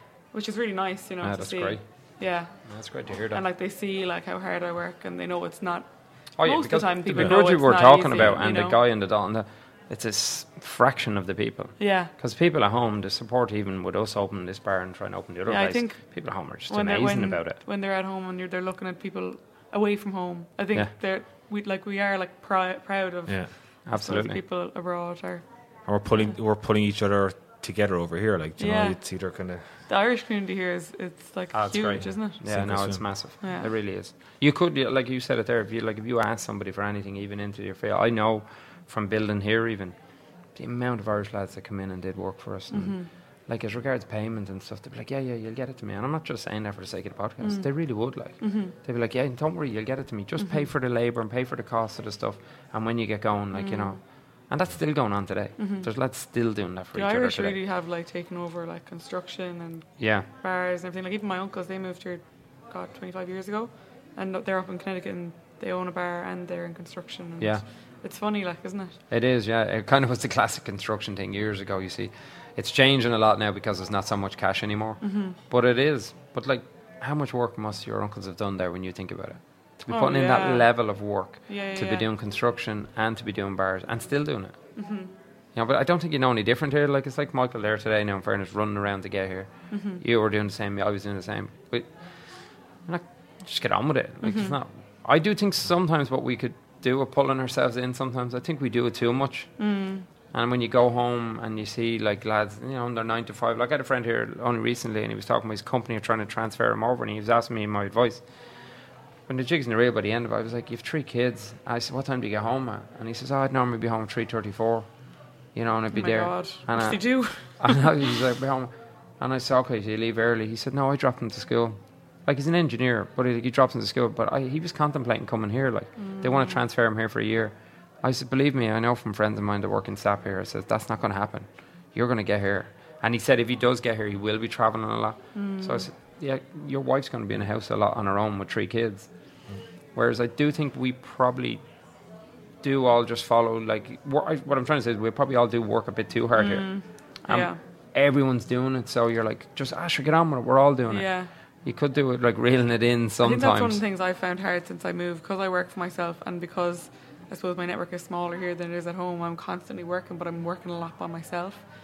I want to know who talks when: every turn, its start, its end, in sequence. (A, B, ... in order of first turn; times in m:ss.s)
0:00.3-0:02.5 A
0:01.2-0:01.8 B
0:02.7-0:03.4 B
0:03.3-0:05.9 A
0:06.4-0:17.6 B
0:06.4-0:08.8 A
0:11.8-0:12.1 A
0:15.5-0:16.1 A
0:16.7-0:25.4 A
0:23.9-0:24.4 B
0:25.9-0:29.6 C
0:28.6-0:29.0 A
0:29.9-0:32.4 A
0:31.5-0:40.0 B
0:32.4-0:33.0 C
0:33.4-0:33.7 A
0:40.6-0:57.6 B
0:42.7-0:43.1 A
0:48.4-0:48.7 A
0:53.5-0:54.0 A
0:55.6-0:55.9 A
0:57.0-1:09.0 A
1:00.0-1:00.3 B
1:09.1-1:24.6 B
1:15.0-1:15.4 A
1:19.9-1:20.7 A
1:21.5-1:22.1 A
1:24.8-1:25.1 A
1:25.6-1:31.9 B
1:29.7-1:30.0 A
1:32.9-1:39.5 B
1:34.2-1:34.6 A
1:39.6-1:40.1 A
1:40.3-1:48.2 B
1:49.3-1:54.9 B
1:55.5-2:19.1 B
1:55.9-1:57.9 A
2:06.0-2:06.6 A
2:15.4-2:15.9 A
2:20.0-2:21.6 B
2:22.6-2:26.7 B
2:26.4-2:27.6 A
2:27.3-2:31.1 B
2:30.9-2:31.3 A
2:31.6-2:33.8 B
2:33.2-2:41.6 A